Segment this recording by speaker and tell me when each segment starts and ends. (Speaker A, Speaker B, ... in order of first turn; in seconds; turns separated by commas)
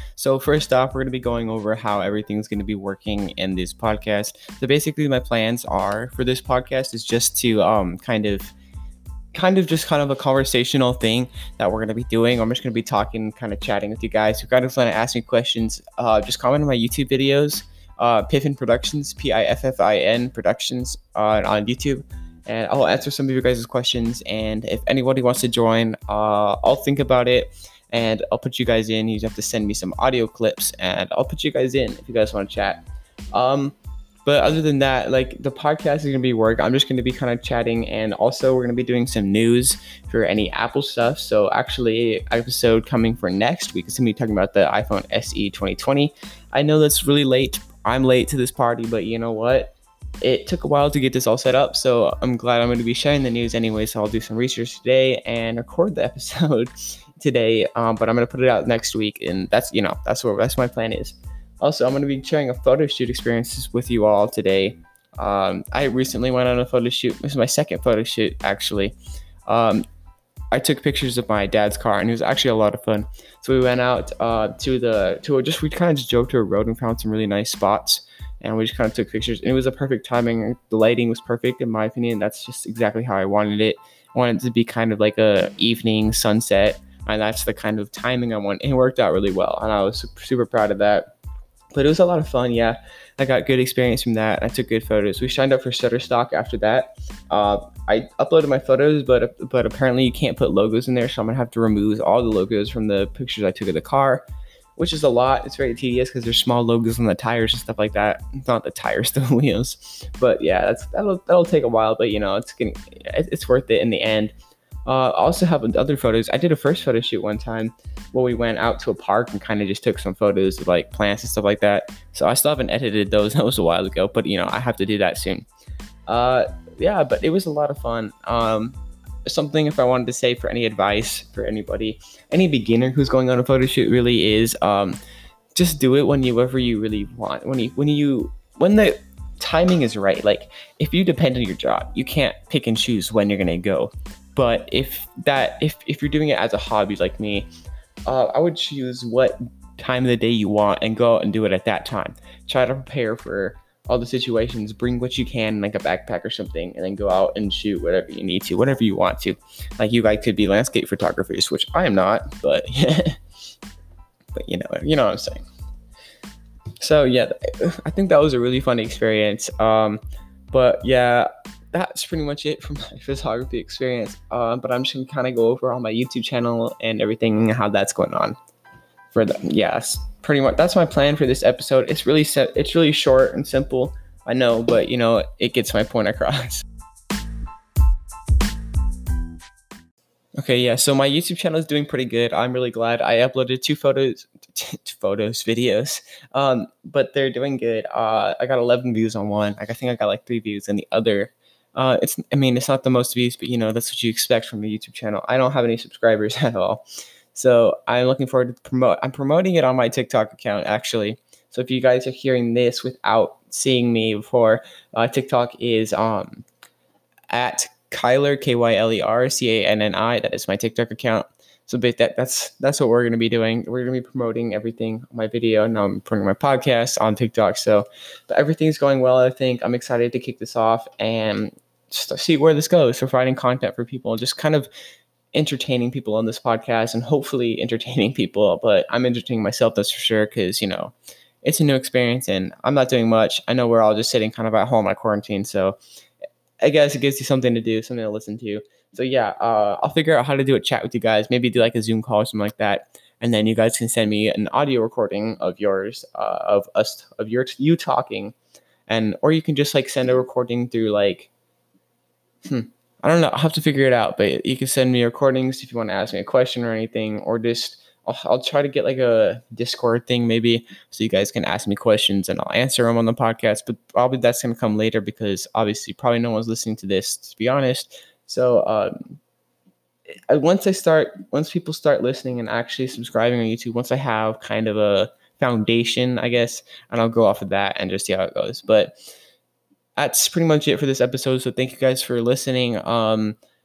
Speaker A: 0.2-8.5, Speaker A: 9.3-69.8, Speaker A: 70.5-91.1, Speaker A: 91.7-104.2, Speaker A: 104.8-114.3, Speaker A: 114.9-125.5, Speaker A: 126.1-135.0, Speaker A: 135.6-147.5, Speaker A: 148.1-163.2, Speaker A: 164.3-165.4, Speaker A: 166.8-178.4, Speaker A: 179.1-186.7, Speaker A: 190.4-216.5, Speaker A: 217.3-234.7, Speaker A: 235.3-245.8, Speaker A: 246.6-258.4, Speaker A: 258.9-261.3, Speaker A: 262.5-279.2, Speaker A: 280.3-289.0, Speaker A: 290.0-293.4